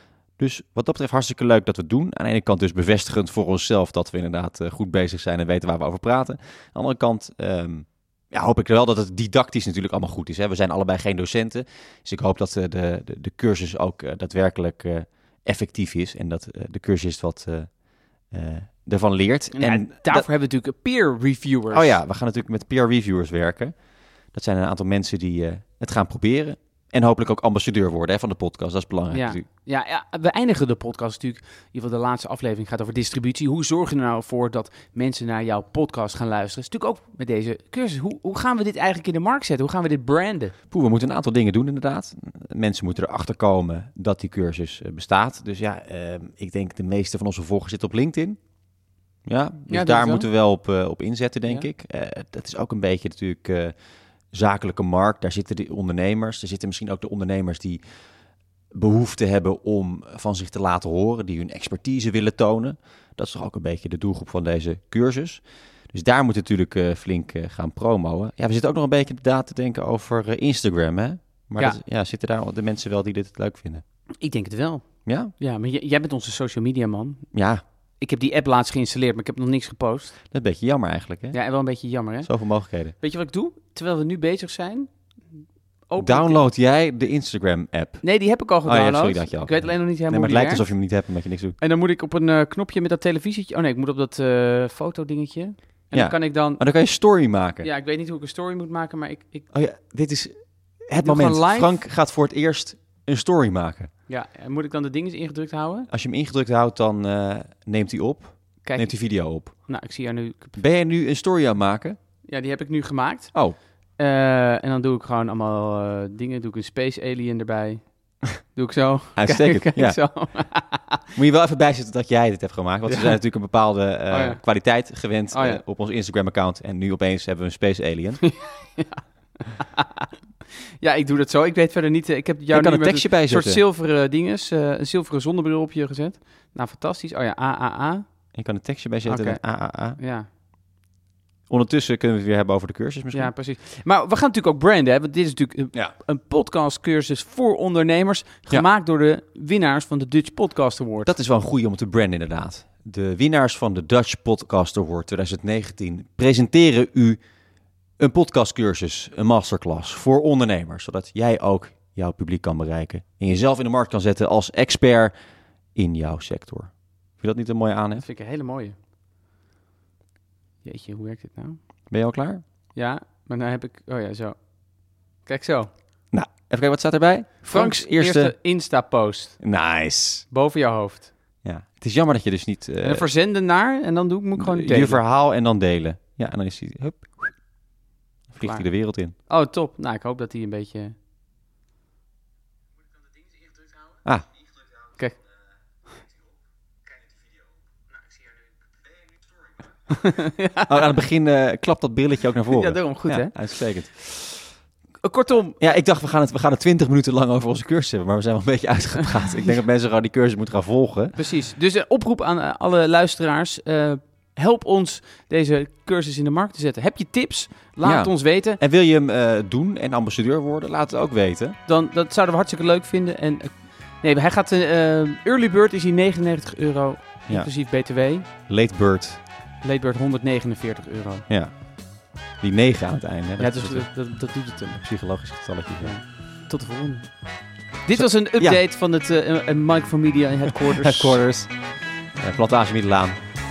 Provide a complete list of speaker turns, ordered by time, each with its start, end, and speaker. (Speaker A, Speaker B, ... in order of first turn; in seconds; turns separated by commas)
Speaker A: 0.4-20.2, Speaker B: 19.5-21.9, Speaker A: 21.7-29.4, Speaker B: 29.1-40.5, Speaker A: 40.7-48.4, Speaker A: 49.2-53.7, Speaker B: 49.7-50.3, Speaker A: 54.3-57.8, Speaker A: 58.7-73.8, Speaker B: 74.2-77.3, Speaker A: 75.0-75.3, Speaker A: 77.3-77.6, Speaker B: 78.0-80.2, Speaker A: 80.3-81.4, Speaker B: 81.3-86.4, Speaker A: 82.2-82.9, Speaker A: 86.0-91.6, Speaker B: 88.0-90.8, Speaker B: 91.6-96.6, Speaker A: 95.9-97.7, Speaker B: 97.6-99.5, Speaker A: 99.5-103.9, Speaker B: 101.0-101.8, Speaker B: 104.1-105.9, Speaker A: 105.9-109.8, Speaker B: 108.6-110.6, Speaker A: 110.6-112.0, Speaker B: 112.2-121.0, Speaker A: 113.3-113.6, Speaker A: 119.2-120.3, Speaker A: 121.1-128.2, Speaker B: 122.9-123.1, Speaker B: 124.1-124.6, Speaker B: 125.3-125.6, Speaker B: 128.2-130.1, Speaker B: 130.8-138.1, Speaker A: 132.5-133.6, Speaker A: 138.3-140.0, Speaker B: 139.0-140.3, Speaker A: 141.5-143.3, Speaker B: 143.1-151.1, Speaker A: 151.0-157.2, Speaker A: 158.0-165.1, Speaker A: 165.7-168.0, Speaker B: 168.0-168.8, Speaker B: 170.6-171.6, Speaker A: 171.9-172.4, Speaker B: 172.7-175.7, Speaker A: 176.1-178.3, Speaker B: 177.5-179.4, Speaker A: 179.4-180.2, Speaker B: 180.3-181.1, Speaker A: 181.4-183.1, Speaker B: 182.8-185.0, Speaker A: 184.4-187.4, Speaker A: 188.3-189.1, Speaker B: 188.4-190.9, Speaker B: 199.9-200.7, Speaker A: 200.7-204.5, Speaker B: 202.5-203.5, Speaker B: 205.0-205.6, Speaker A: 205.6-211.1, Speaker B: 211.1-218.6, Speaker A: 217.8-221.6, Speaker B: 221.7-228.3, Speaker A: 228.5-229.2, Speaker B: 229.6-231.3, Speaker A: 231.3-235.9, Speaker B: 233.4-234.8, Speaker B: 235.8-237.3, Speaker B: 237.8-241.2, Speaker A: 237.9-238.6, Speaker A: 240.7-243.2